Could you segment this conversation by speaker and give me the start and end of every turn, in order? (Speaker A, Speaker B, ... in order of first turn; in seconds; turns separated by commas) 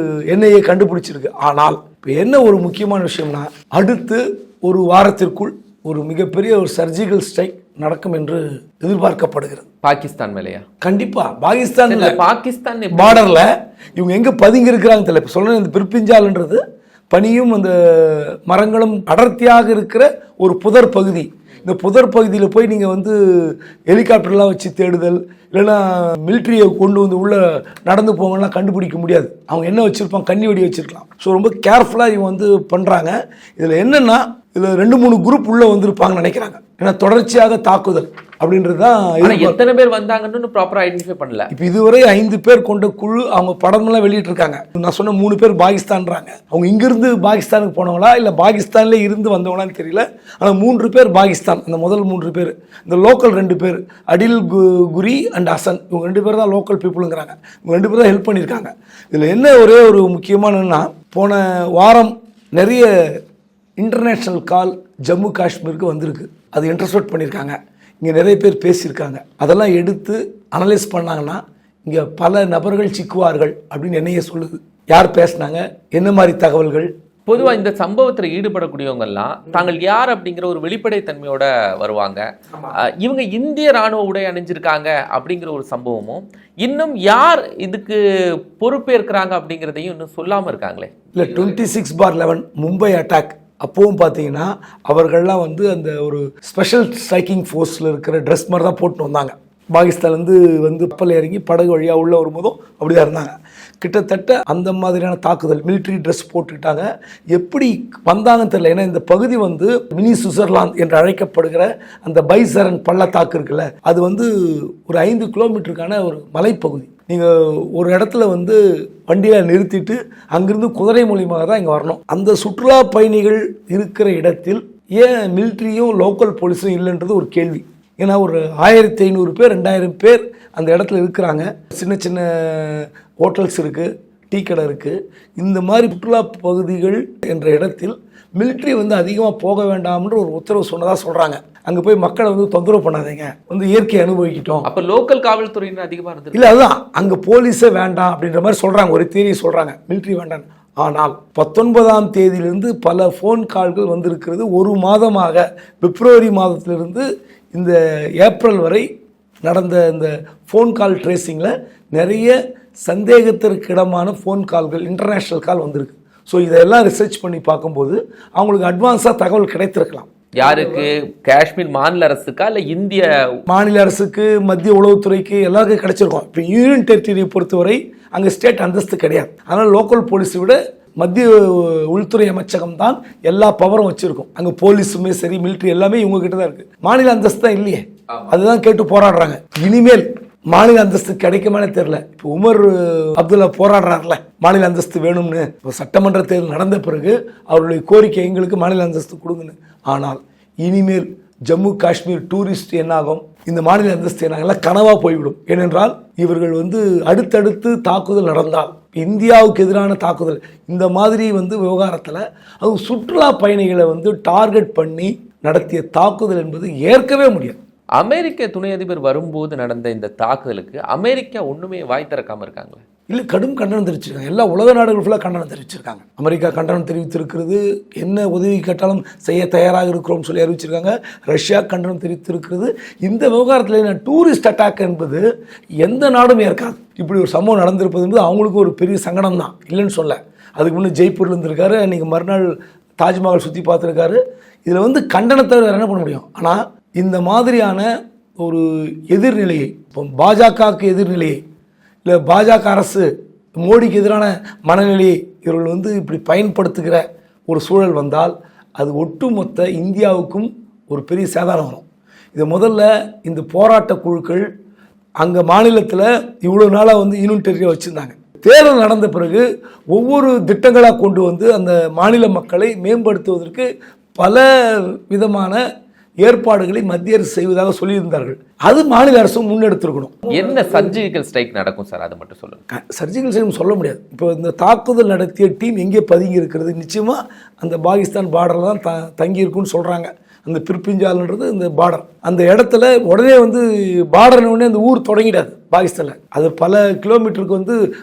Speaker A: 0.3-9.7, Speaker B: 9.8-10.6, Speaker A: 10.8-12.2, Speaker B: 11.9-13.3, Speaker A: 12.9-39.6, Speaker B: 39.2-41.5, Speaker A: 41.5-62.9, Speaker A: 63.8-76.9, Speaker B: 77.3-88.0, Speaker B: 88.6-91.6, Speaker A: 91.1-144.7, Speaker B: 144.7-146.6, Speaker A: 146.3-158.9, Speaker A: 159.4-170.9, Speaker B: 170.4-173.1, Speaker A: 173.5-217.6, Speaker B: 188.1-188.4, Speaker B: 218.0-222.8, Speaker A: 223.1-235.2, Speaker A: 235.8-247.9, Speaker A: 248.4-251.4, Speaker A: 252.0-253.1, Speaker A: 253.6-264.5, Speaker A: 265.2-275.6, Speaker A: 276.2-280.9, Speaker B: 280.3-282.6, Speaker A: 282.7-297.8